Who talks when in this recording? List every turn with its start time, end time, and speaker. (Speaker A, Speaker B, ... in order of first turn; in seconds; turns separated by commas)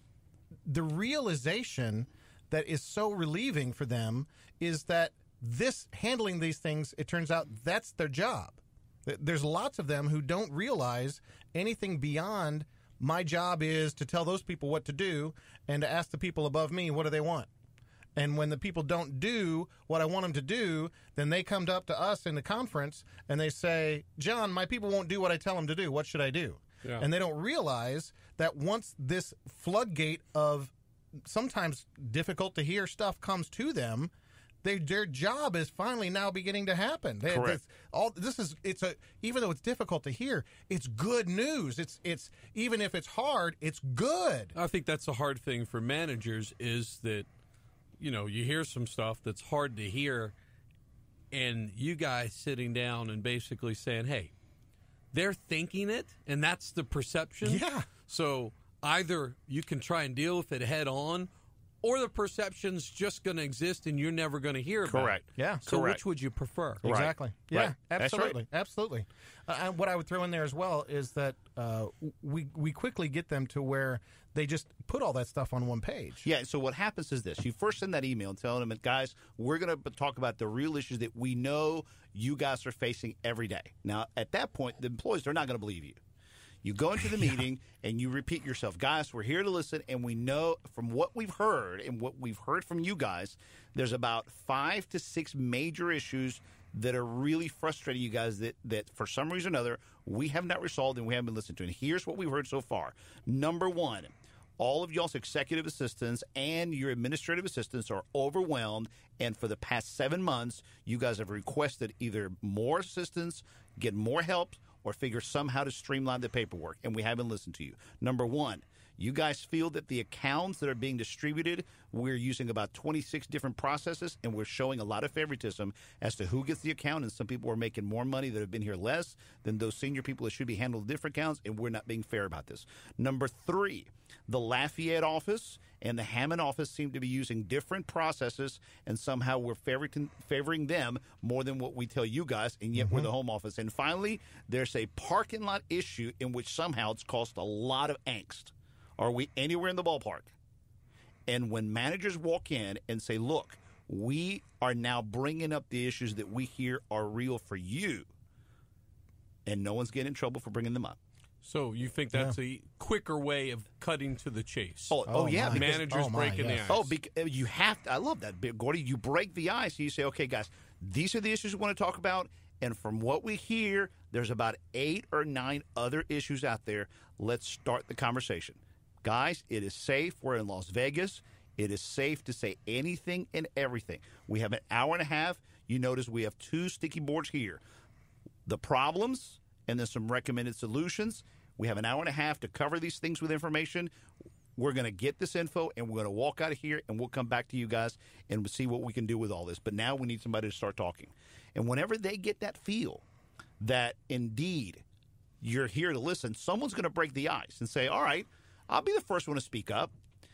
Speaker A: 0.7-17.5, Speaker A: 18.1-30.7, Speaker A: 31.3-34.1, Speaker A: 34.6-44.5, Speaker B: 37.3-37.6, Speaker C: 44.5-47.3, Speaker C: 48.0-50.3, Speaker C: 51.3-54.3, Speaker C: 55.1-61.3, Speaker A: 57.4-57.9, Speaker C: 61.8-66.8, Speaker B: 64.8-66.0, Speaker A: 65.4-65.6, Speaker A: 66.8-76.2, Speaker B: 66.8-68.4, Speaker B: 76.2-86.0, Speaker B: 86.6-150.3, Speaker A: 142.8-143.1, Speaker B: 151.3-158.1, Speaker B: 159.4-161.0, Speaker C: 161.4-164.9, Speaker B: 164.9-165.8, Speaker A: 165.1-166.8, Speaker C: 165.5-166.9, Speaker B: 166.7-187.6, Speaker B: 188.4-193.9, Speaker B: 194.6-203.1, Speaker B: 203.6-204.8, Speaker B: 205.4-209.9